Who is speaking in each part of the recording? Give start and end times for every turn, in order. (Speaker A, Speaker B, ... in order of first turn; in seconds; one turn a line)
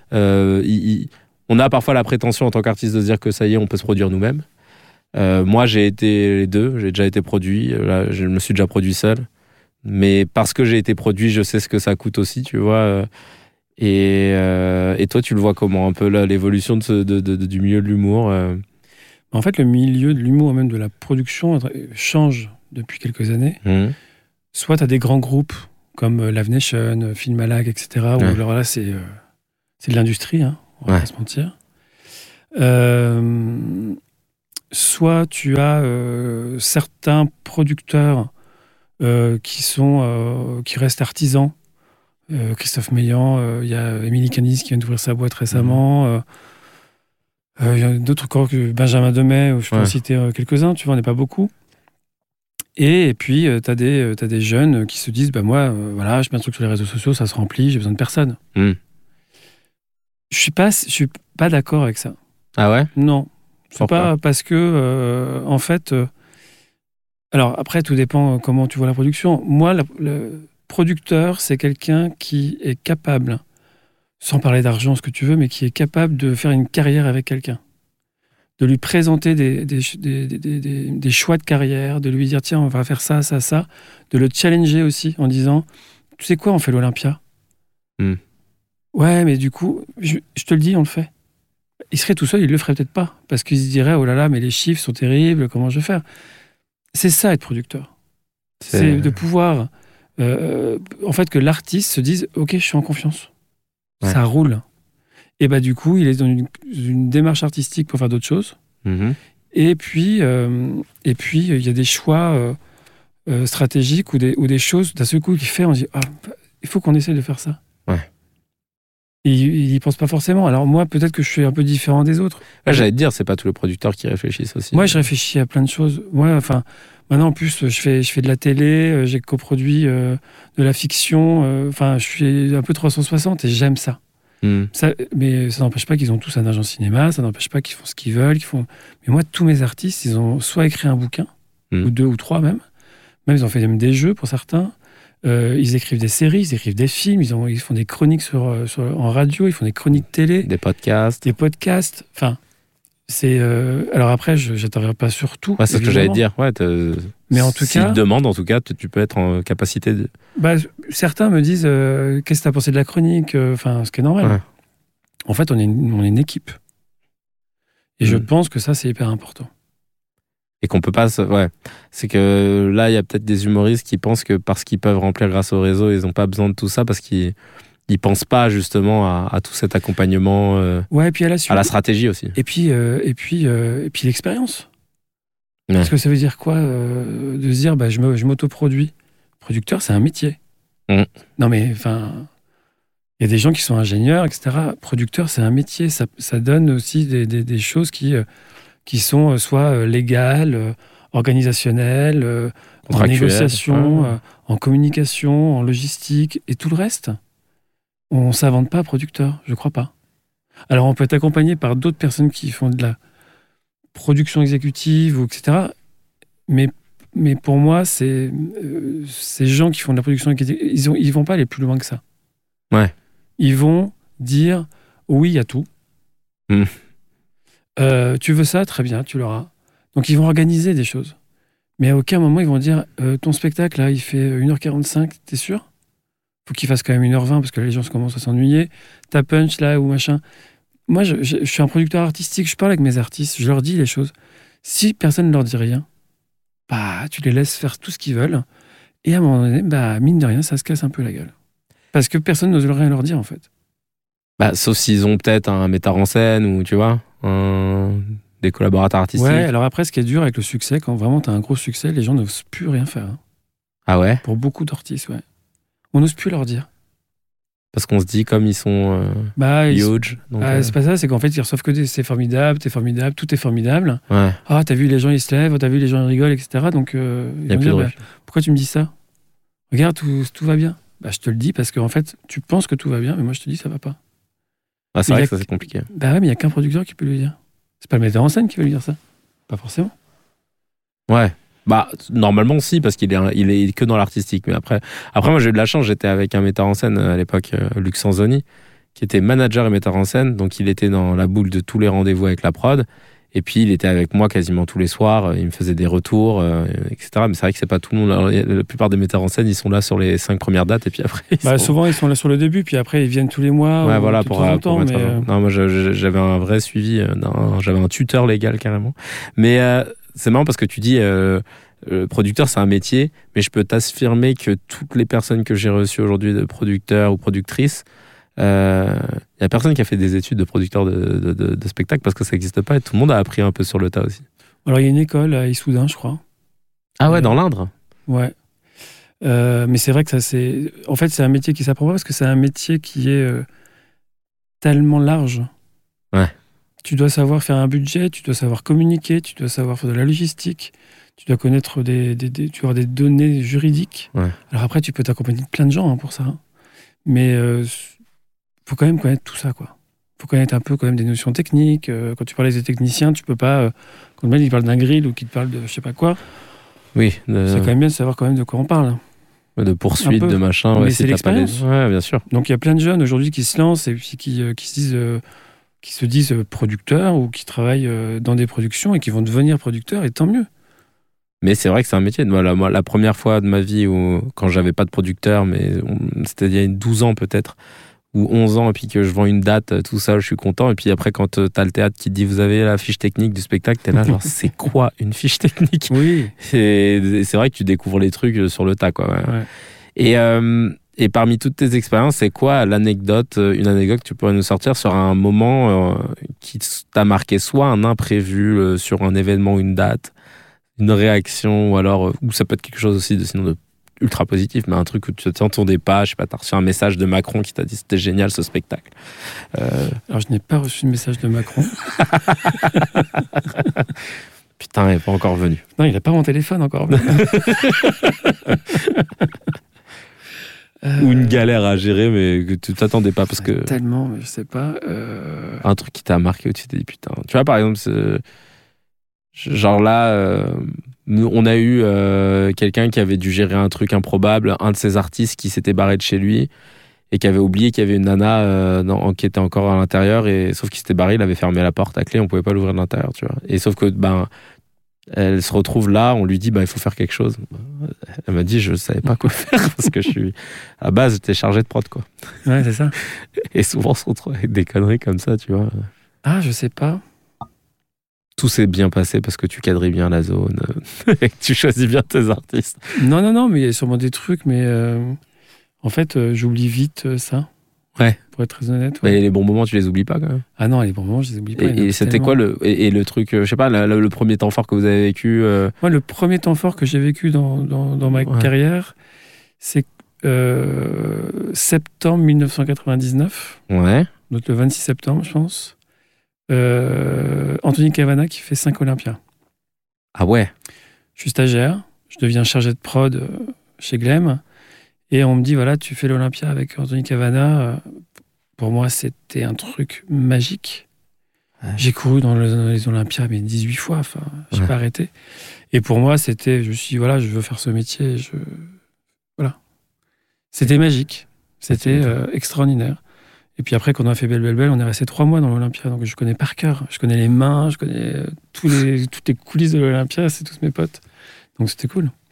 Speaker A: 0.1-4.5
Speaker A: 5.2-9.3
Speaker A: 9.8-13.1
Speaker A: 13.8-18.6
Speaker B: 19.3-23.6
Speaker A: 23.6-23.9
Speaker B: 24.5-29.1
Speaker B: 29.8-31.6
Speaker B: 32.5-34.0
Speaker B: 34.7-38.3
Speaker B: 39.0-41.5
Speaker B: 42.3-46.2
Speaker A: 45.5-45.8
Speaker B: 47.6-51.5
Speaker B: 52.8-58.4
Speaker B: 60.3-62.2
Speaker A: 62.6-62.9
Speaker B: 63.0-66.1
Speaker A: 63.8-64.1
Speaker B: 67.3-73.4
Speaker B: 74.2-77.6
Speaker B: 78.6-85.7
Speaker B: 86.2-87.2
Speaker B: 88.9-91.1
Speaker B: 91.9-96.0
Speaker B: 96.9-97.9
Speaker A: 98.6-99.1
Speaker B: 98.7-103.3
Speaker B: 104.0-104.6
Speaker B: 105.4-108.6
Speaker A: 108.8-109.2
Speaker B: 109.5-112.6
Speaker B: 113.3-117.6
Speaker B: 119.2-122.9
Speaker A: 122.7-125.0
Speaker B: 124.7-134.0
Speaker A: 134.4-134.7
Speaker B: 134.7-141.3
Speaker B: 141.8-142.6
Speaker B: 143.3-150.5
Speaker A: 150.4-151.2
Speaker B: 151.2-152.4
Speaker B: 153.1-156.2
Speaker A: 155.6-160.1
Speaker B: 157.3-158.0
Speaker B: 160.4-164.4
Speaker B: 165.3-166.6
Speaker B: 168.0-169.5
Speaker A: 170.6-177.3
Speaker A: 177.9-180.9
Speaker B: 180.9-181.7
Speaker A: 181.5-182.3
Speaker B: 182.3-184.7
Speaker B: 185.8-190.4
Speaker B: 191.4-192.3
Speaker B: 193.2-198.2
Speaker B: 198.9-207.2
Speaker A: 202.9-204.1
Speaker B: 208.1-209.9
Speaker B: 210.7-213.0
Speaker B: 213.9-215.7
Speaker B: 216.5-222.0
Speaker B: 223.4-225.7
Speaker B: 227.8-231.2
Speaker B: 231.8-235.7
Speaker B: 236.5-240.2
Speaker B: 240.9-244.1
Speaker B: 244.6-245.9
Speaker B: 246.7-248.4
Speaker B: 249.0-251.3
Speaker B: 251.9-253.5
Speaker A: 254.4-259.5
Speaker B: 259.2-263.2
Speaker A: 263.9-264.2
Speaker B: 264.2-265.2
Speaker B: 265.9-266.7
Speaker A: 267.7-270.7
Speaker B: 269.4-278.9
Speaker A: 274.1-274.4
Speaker A: 277.5-277.9
Speaker B: 279.7-284.0
Speaker A: 284.9-285.9
Speaker B: 285.1-289.0
Speaker B: 289.5-289.9
Speaker A: 291.1-298.4
Speaker A: 299.0-311.7
Speaker B: 311.4-315.3
Speaker A: 313.8-327.8
Speaker A: 328.4-334.2
Speaker B: 334.6-336.2
Speaker A: 337.0-337.7
Speaker B: 337.1-337.4
Speaker B: 338.1-338.3
Speaker B: 339.2-343.5
Speaker B: 344.6-345.5
Speaker B: 346.8-356.4
Speaker B: 357.1-357.9
Speaker B: 358.7-366.2
Speaker A: 366.9-367.7
Speaker B: 367.5-369.0
Speaker A: 369.6-372.2
Speaker B: 370.0-371.7
Speaker B: 372.3-375.2
Speaker B: 375.8-380.5
Speaker A: 381.4-387.6
Speaker A: 388.1-399.4
Speaker B: 395.9-396.3
Speaker A: 400.0-410.1
Speaker A: 410.8-418.9
Speaker A: 419.5-420.0
Speaker B: 420.1-421.9
Speaker A: 422.3-422.6
Speaker B: 422.6-423.1
Speaker A: 424.6-425.6
Speaker B: 425.8-429.1
Speaker A: 427.0-427.9
Speaker B: 430.8-431.4
Speaker A: 431.0-433.7
Speaker B: 433.4-435.6
Speaker A: 435.6-438.2
Speaker A: 439.3-446.5
Speaker A: 447.1-454.3
Speaker A: 455.1-462.1
Speaker B: 462.4-463.0
Speaker A: 463.4-465.9
Speaker B: 466.2-467.0
Speaker A: 468.4-472.8
Speaker B: 472.9-475.2
Speaker B: 475.8-477.5
Speaker B: 478.3-479.2
Speaker A: 479.0-480.4
Speaker B: 480.6-482.4
Speaker A: 481.6-485.7
Speaker B: 485.8-488.9
Speaker B: 489.6-493.6
Speaker A: 493.7-494.1
Speaker B: 494.3-495.8
Speaker B: 496.5-499.2
Speaker A: 500.1-500.5
Speaker B: 501.2-504.4
Speaker B: 505.1-507.8
Speaker B: 508.6-510.9
Speaker B: 511.8-515.1
Speaker B: 515.7-518.7
Speaker B: 520.5-523.0
Speaker A: 521.7-522.1
Speaker B: 523.6-531.0
Speaker B: 531.6-532.1